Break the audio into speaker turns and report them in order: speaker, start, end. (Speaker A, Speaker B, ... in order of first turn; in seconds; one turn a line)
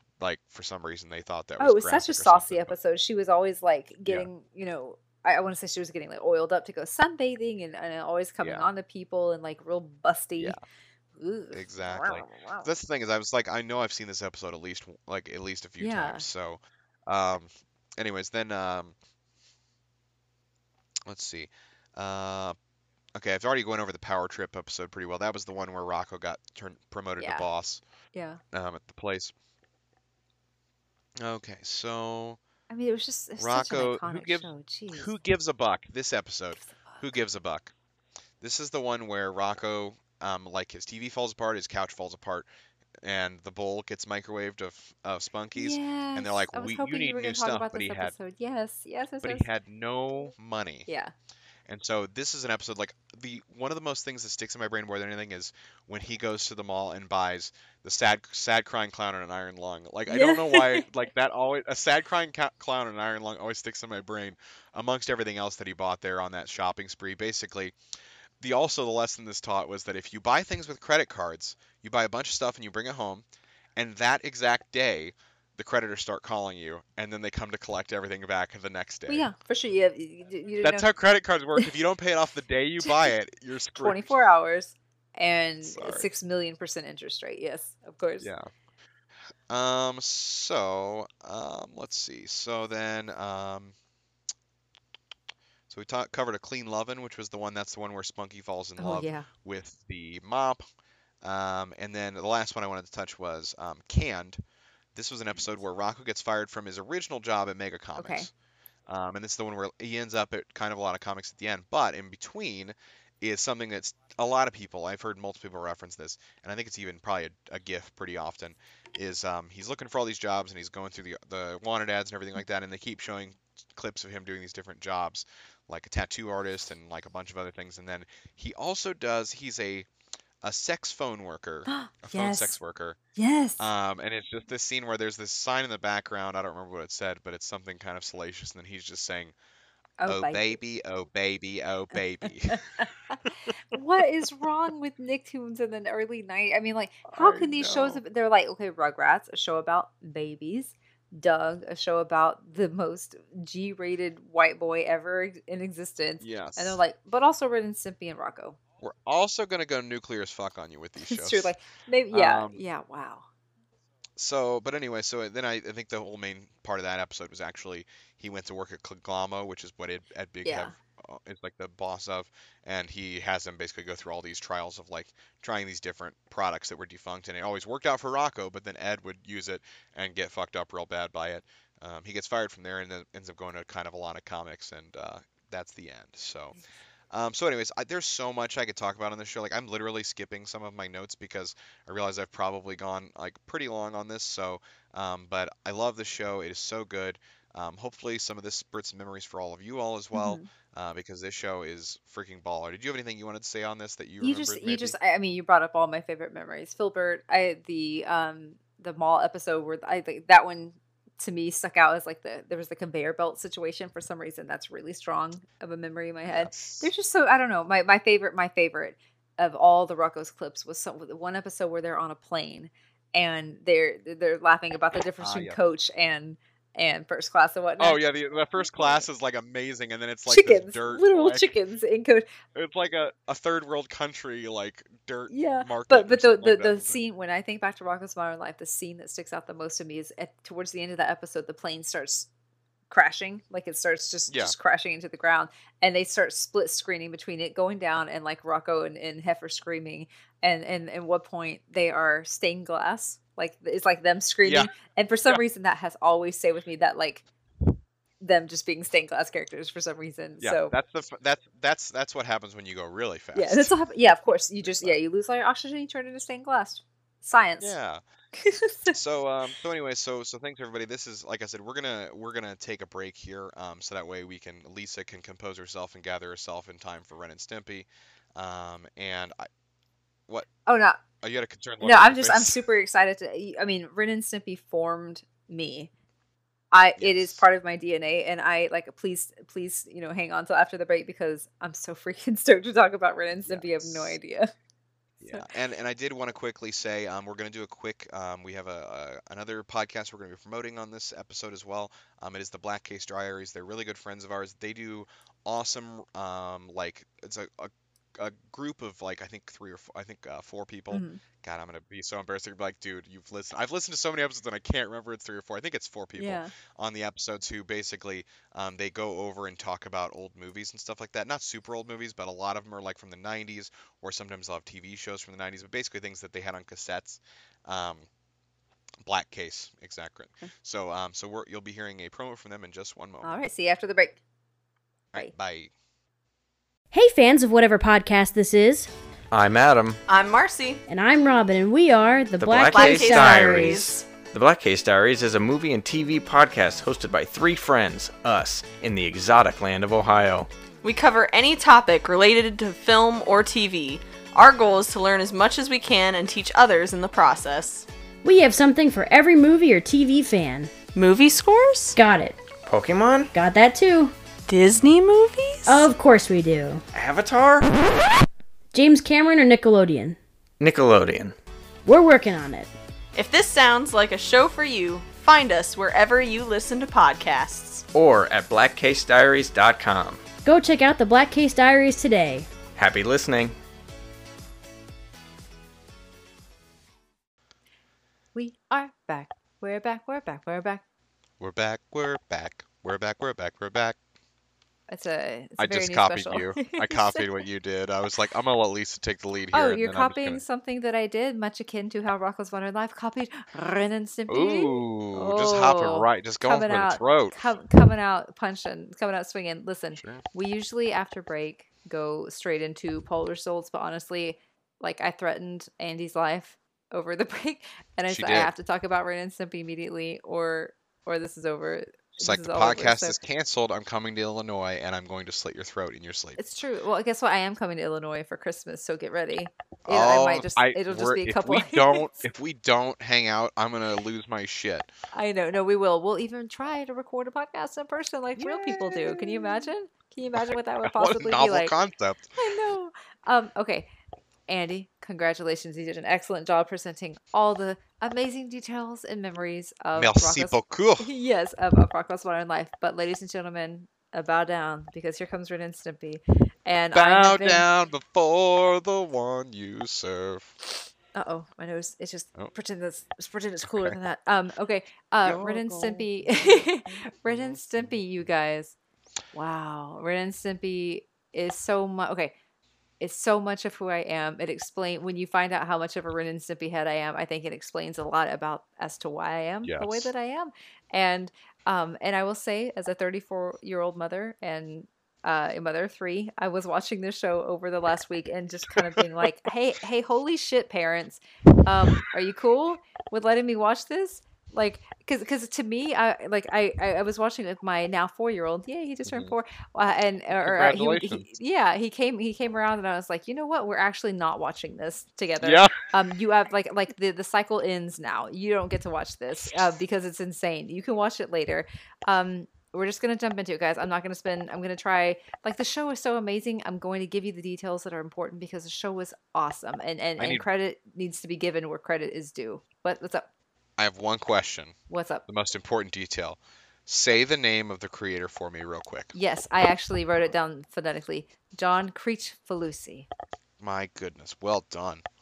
Speaker A: 0.2-2.7
Speaker B: 1.6-10.6
Speaker A: 8.4-8.7
Speaker A: 10.4-10.6
Speaker B: 11.2-12.7
Speaker A: 11.5-18.9
Speaker B: 15.8-16.3
Speaker A: 21.1-22.6
Speaker A: 23.1-27.8
Speaker B: 27.2-27.5
Speaker B: 28.1-28.4
Speaker A: 28.5-29.3
Speaker A: 31.2-32.4
Speaker B: 32.7-35.1
Speaker A: 33.4-37.7
Speaker B: 36.6-37.0
Speaker A: 38.4-42.5
Speaker A: 43.0-48.1
Speaker B: 45.6-49.5
Speaker A: 49.2-50.9
Speaker B: 50.9-51.1
Speaker A: 51.7-67.8
Speaker B: 60.1-60.9
Speaker A: 68.4-79.3
Speaker B: 79.1-80.9
Speaker A: 80.6-84.2
Speaker B: 82.8-83.1
Speaker B: 83.8-88.3
Speaker A: 85.6-86.1
Speaker A: 88.2-88.5
Speaker A: 89.5-93.7
Speaker A: 95.7-100.6
Speaker B: 98.8-99.3
Speaker A: 101.2-104.4
Speaker A: 105.0-108.3
Speaker B: 108.0-108.3
Speaker A: 108.9-129.9
Speaker A: 130.4-133.0
Speaker B: 131.7-132.6
Speaker B: 133.2-133.7
Speaker A: 133.6-139.3
Speaker B: 140.0-140.6
Speaker A: 140.1-142.6
Speaker B: 142.5-143.2
Speaker B: 143.7-158.6
Speaker A: 147.1-148.0
Speaker A: 156.2-156.8
Speaker A: 158.8-161.6
Speaker B: 161.0-163.3
Speaker A: 162.1-162.6
Speaker A: 164.2-186.6
Speaker B: 170.4-170.7
Speaker A: 187.1-204.9
Speaker B: 200.1-200.5
Speaker B: 204.2-228.0
Speaker A: 216.3-216.9
Speaker A: 225.2-225.6
Speaker A: 227.8-231.5
Speaker B: 228.6-229.1
Speaker B: 230.3-232.3
Speaker A: 232.6-237.0
Speaker B: 235.3-242.3
Speaker B: 242.9-257.2
Speaker A: 254.4-254.7
Speaker B: 258.2-260.7
Speaker A: 260.4-263.8
Speaker B: 263.4-267.8
Speaker A: 264.6-265.0
Speaker A: 267.6-268.0
Speaker B: 268.4-269.0
Speaker A: 268.9-279.5
Speaker B: 280.7-281.0
Speaker A: 281.2-282.6
Speaker B: 281.8-285.9
Speaker B: 286.7-294.5
Speaker A: 287.0-287.4
Speaker A: 293.5-294.2
Speaker A: 295.2-328.1
Speaker B: 310.9-311.2
Speaker B: 316.2-316.5
Speaker A: 329.0-333.3
Speaker B: 333.2-334.2
Speaker A: 335.1-335.7
Speaker C: 336.9-338.9
Speaker D: 339.3-340.0
Speaker E: 340.1-340.8
Speaker C: 340.9-343.8
Speaker D: 342.4-350.5
Speaker E: 342.7-344.1
Speaker E: 350.8-357.9
Speaker C: 358.2-360.7
Speaker E: 360.9-362.0
Speaker C: 361.9-362.4
Speaker D: 362.6-363.3
Speaker C: 363.3-364.1
Speaker E: 364.5-365.9
Speaker C: 365.7-366.8
Speaker D: 366.9-368.0
Speaker C: 368.7-370.2
Speaker D: 370.6-371.4
Speaker C: 371.9-372.7
Speaker E: 373.1-377.9
Speaker D: 377.9-380.2
Speaker C: 380.4-382.5
Speaker D: 382.8-383.5
Speaker B: 388.4-390.8
Speaker A: 391.4-394.0
Speaker B: 394.9-397.3
Speaker A: 395.6-400.4
Speaker B: 399.5-423.2
Speaker A: 404.3-407.4
Speaker A: 410.0-410.2
Speaker A: 418.1-418.5
Speaker A: 422.2-426.4
Speaker B: 426.4-432.1
Speaker A: 429.9-434.9
Speaker B: 435.1-441.8
Speaker A: 438.4-439.7
Speaker A: 440.4-442.4
Speaker B: 442.4-443.9
Speaker B: 444.5-457.7
Speaker A: 449.9-451.1
Speaker A: 456.9-460.5
Speaker B: 461.1-468.8
Speaker A: 463.6-464.0
Speaker A: 465.2-467.9
Speaker B: 469.3-472.3
Speaker B: 473.0-523.3
Speaker A: 479.6-480.1
Speaker A: 499.1-499.3
Speaker A: 500.4-501.3
Speaker A: 505.4-505.9
Speaker A: 520.2-520.5
Speaker A: 523.8-524.8
Speaker B: 524.9-525.2
Speaker A: 525.3-529.1
Speaker B: 529.1-533.1
Speaker A: 533.6-535.0